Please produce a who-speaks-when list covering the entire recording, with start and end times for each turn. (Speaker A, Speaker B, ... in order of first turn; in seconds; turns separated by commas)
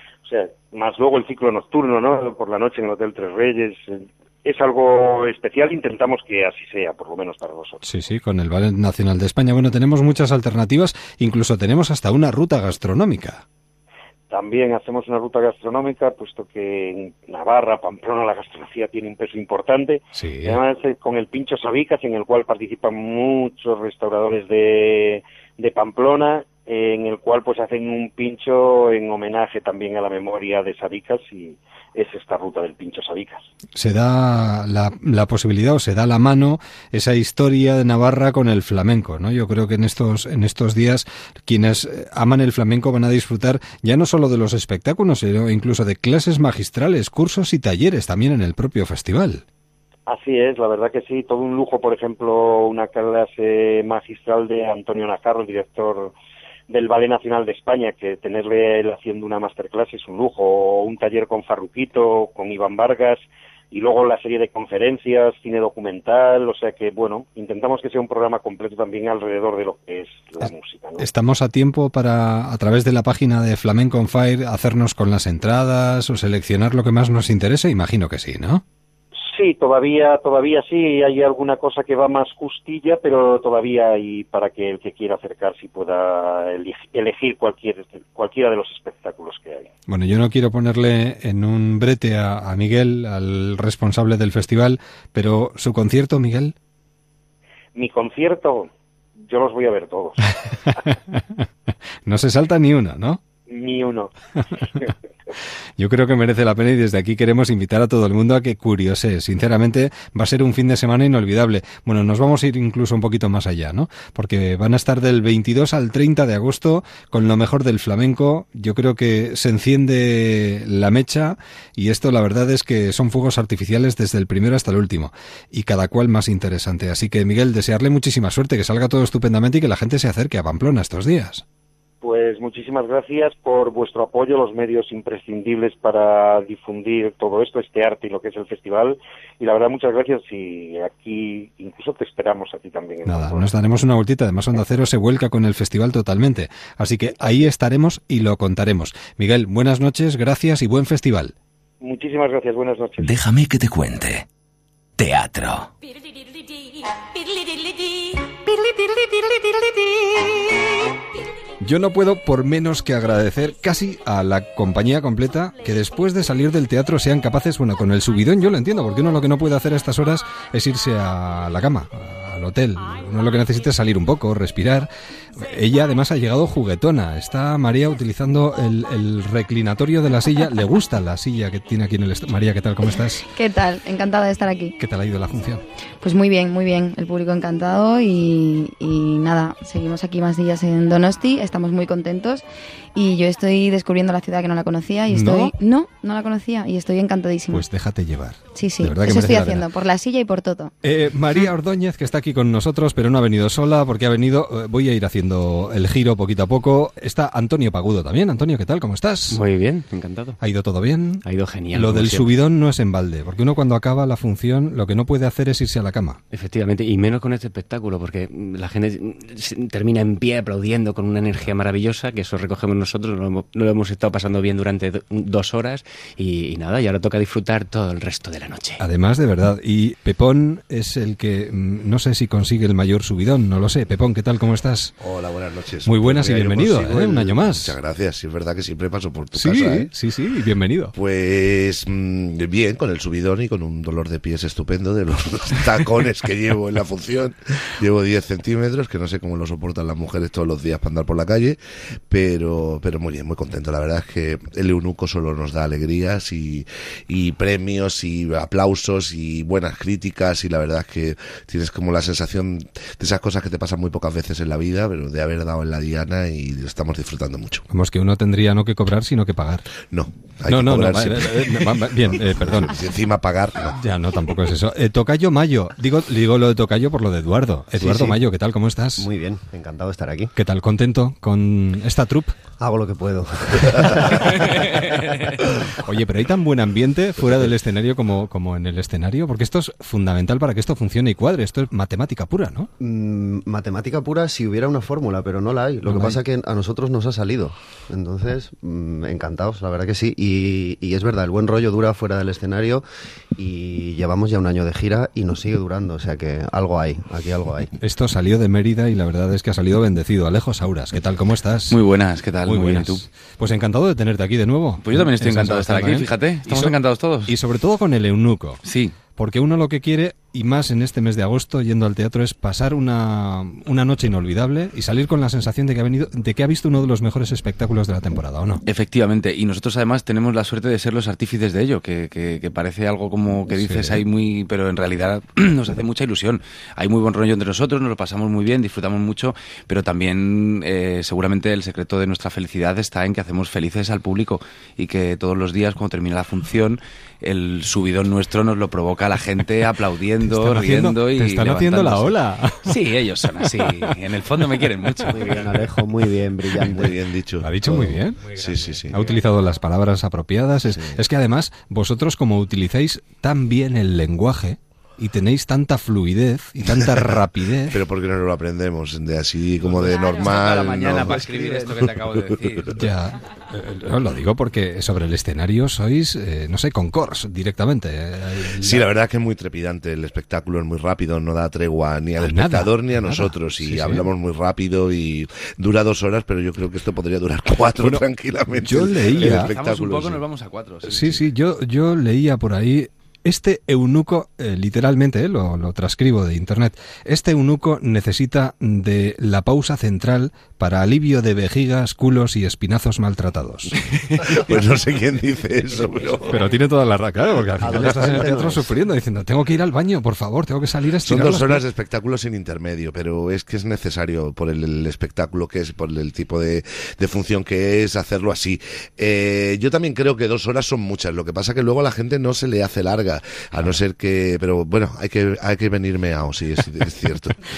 Speaker A: 0.2-7.8, Speaker B: 7.8-13.4, Speaker A: 14.3-33.5, Speaker B: 20.1-20.6, Speaker B: 33.7-49.4, Speaker A: 50.1-56.1, Speaker A: 56.7-71.1, Speaker B: 70.4-78.6, Speaker A: 79.3-89.7, Speaker B: 89.9-96.5, Speaker A: 97.8-98.7, Speaker A: 99.2-100.2, Speaker B: 100.7-101.5, Speaker B: 102.0-103.2, Speaker A: 103.5-104.1, Speaker B: 105.8-131.4, Speaker A: 132.0-143.5, Speaker B: 143.0-151.3, Speaker A: 151.8-153.2, Speaker C: 153.0-154.2, Speaker C: 155.0-155.7, Speaker B: 161.6-183.2, Speaker D: 183.2-184.8, Speaker B: 184.8-185.6, Speaker D: 186.0-197.6, Speaker B: 195.1-195.5, Speaker B: 197.5-199.7, Speaker D: 198.5-200.7, Speaker B: 200.8-209.4, Speaker E: 209.3-210.4, Speaker B: 210.4-216.2, Speaker E: 211.2-212.4, Speaker E: 216.3-228.8, Speaker B: 228.8-234.9, Speaker F: 235.0-239.9, Speaker B: 235.8-237.7, Speaker B: 239.3-240.9, Speaker F: 240.9-251.6, Speaker F: 252.1-267.6, Speaker B: 267.7-269.6, Speaker F: 269.9-273.8, Speaker B: 270.5-272.8, Speaker B: 273.7-279.1, Speaker G: 277.8-278.2, Speaker G: 279.0-280.3, Speaker B: 280.4-282.4, Speaker G: 282.6-284.2, Speaker B: 285.8-292.7, Speaker G: 292.8-302.8, Speaker B: 295.8-296.2, Speaker G: 303.4-307.7, Speaker B: 307.8-311.8, Speaker H: 311.7-313.0, Speaker B: 312.4-318.6, Speaker H: 314.8-317.3, Speaker H: 318.6-318.9, Speaker B: 319.2-328.6, Speaker H: 328.6-355.3, Speaker B: 333.5-334.0, Speaker B: 350.2-352.6, Speaker B: 353.4-353.7, Speaker B: 354.6-355.0, Speaker G: 355.1-356.8, Speaker F: 356.7-357.5, Speaker B: 357.4-358.3, Speaker E: 358.3-359.0, Speaker F: 358.4-358.9, Speaker B: 358.9-367.8, Speaker F: 367.7-372.6, Speaker H: 369.6-372.8, Speaker B: 371.1-371.4, Speaker B: 372.7-378.9, Speaker F: 378.6-390.2, Speaker B: 382.2-384.1, Speaker B: 387.7-388.0, Speaker B: 388.6-389.5, Speaker H: 389.1-391.2, Speaker B: 390.9-403.7, Speaker F: 404.2-406.4, Speaker B: 406.3-411.6, Speaker G: 407.6-408.7, Speaker F: 411.1-427.4